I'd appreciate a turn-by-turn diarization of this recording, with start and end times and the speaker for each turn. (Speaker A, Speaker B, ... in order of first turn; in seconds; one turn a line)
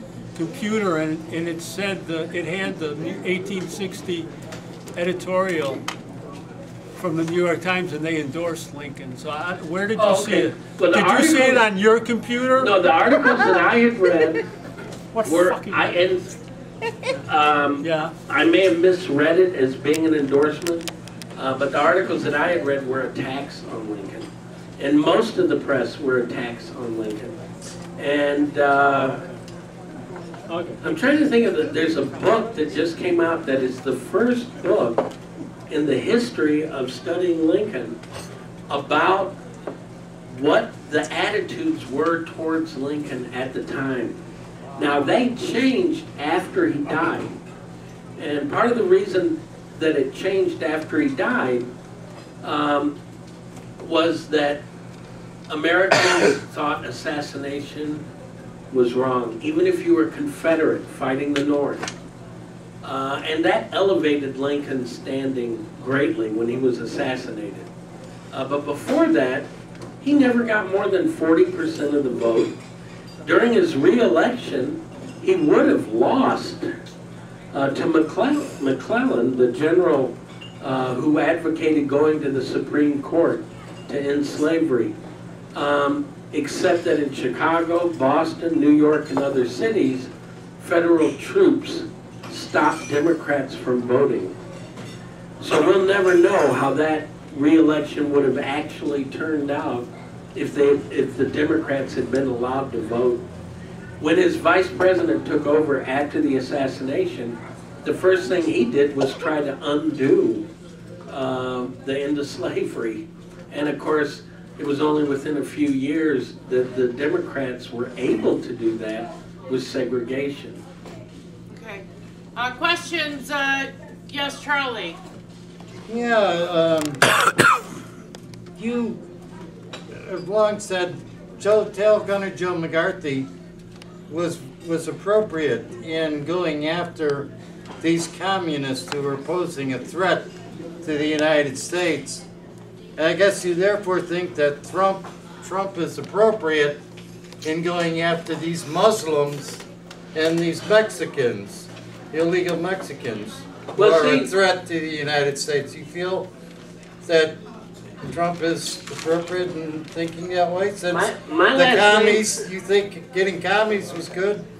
Speaker A: 0.3-4.3
Speaker A: 5.0-5.8
Speaker A: 7.0-12.8
Speaker B: 9.9-11.7
Speaker B: 12.6-14.4
Speaker A: 15.1-16.0
Speaker B: 15.2-16.3
Speaker B: 17.3-27.4
Speaker A: 17.8-18.1
Speaker B: 28.0-29.2
Speaker A: 30.5-30.8
Speaker B: 30.8-35.0
Speaker B: 35.7-38.0
Speaker B: 38.7-39.4
Speaker B: 40.3-44.2
Speaker B: 44.8-47.3
Speaker B: 48.2-51.7
Speaker B: 52.4-53.0
Speaker B: 53.8-54.6
Speaker B: 55.5-58.0
Speaker B: 58.7-61.9
Speaker B: 62.8-67.7
Speaker B: 68.3-69.5
Speaker B: 70.0-72.5
Speaker B: 73.2-76.7
Speaker B: 77.5-85.0
Speaker B: 85.5-94.4
Speaker B: 95.4-103.2
Speaker B: 104.0-110.5
Speaker B: 111.1-120.6
Speaker C: 121.5-121.8
Speaker C: 122.4-125.0
Speaker D: 125.9-127.0
Speaker D: 128.6-129.0
Speaker D: 129.9-133.3
Speaker D: 134.1-137.3
Speaker D: 137.8-140.3
Speaker D: 140.8-142.2
Speaker D: 143.0-146.8
Speaker D: 147.4-149.6
Speaker D: 150.1-156.3
Speaker B: 153.8-154.3
Speaker D: 157.0-157.4
Speaker D: 158.0-164.5
Speaker B: 160.9-162.3